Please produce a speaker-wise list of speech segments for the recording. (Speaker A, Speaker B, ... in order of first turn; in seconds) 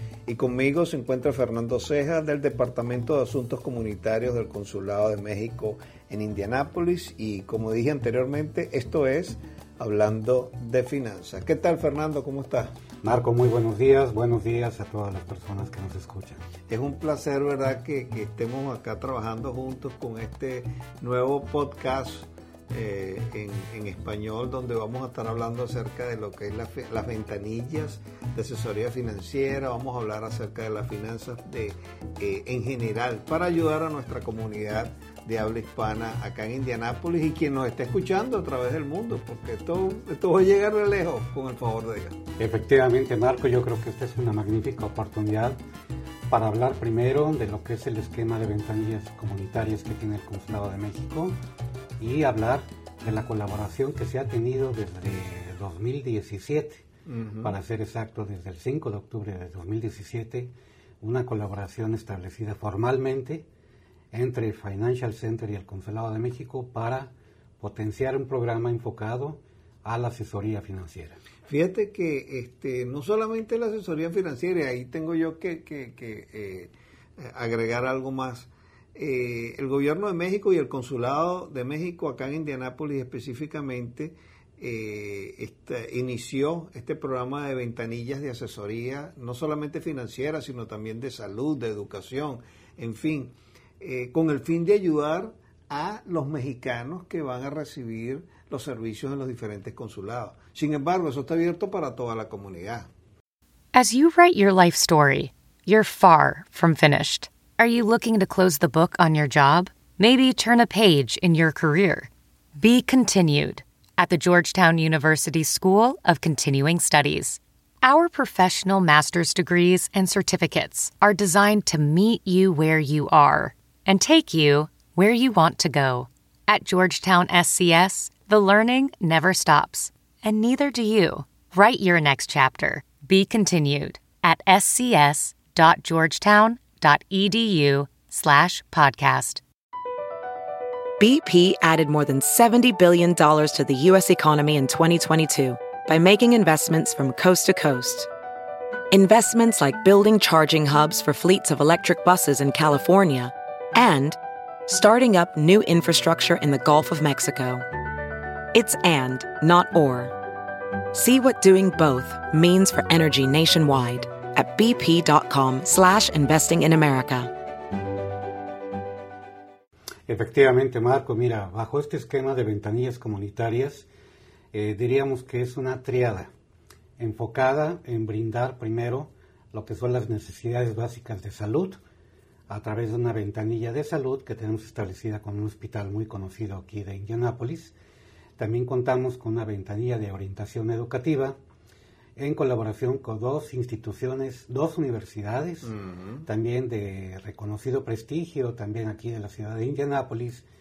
Speaker A: 0.3-12.7, 16.7-42.2, 57.0-57.5, 71.5-102.9, 195.7-196.2
Speaker B: 13.0-16.4, 42.4-45.6, 46.3-51.3, 52.0-56.9, 57.4-63.5, 64.1-71.2, 170.1-173.9, 174.5-176.3, 177.0-181.8, 182.5-187.7, 188.4-191.4, 192.2-195.7, 196.2-200.5
Speaker C: 103.7-139.4
Speaker D: 141.0-148.1, 148.9-157.6, 158.5-160.1, 160.9-167.3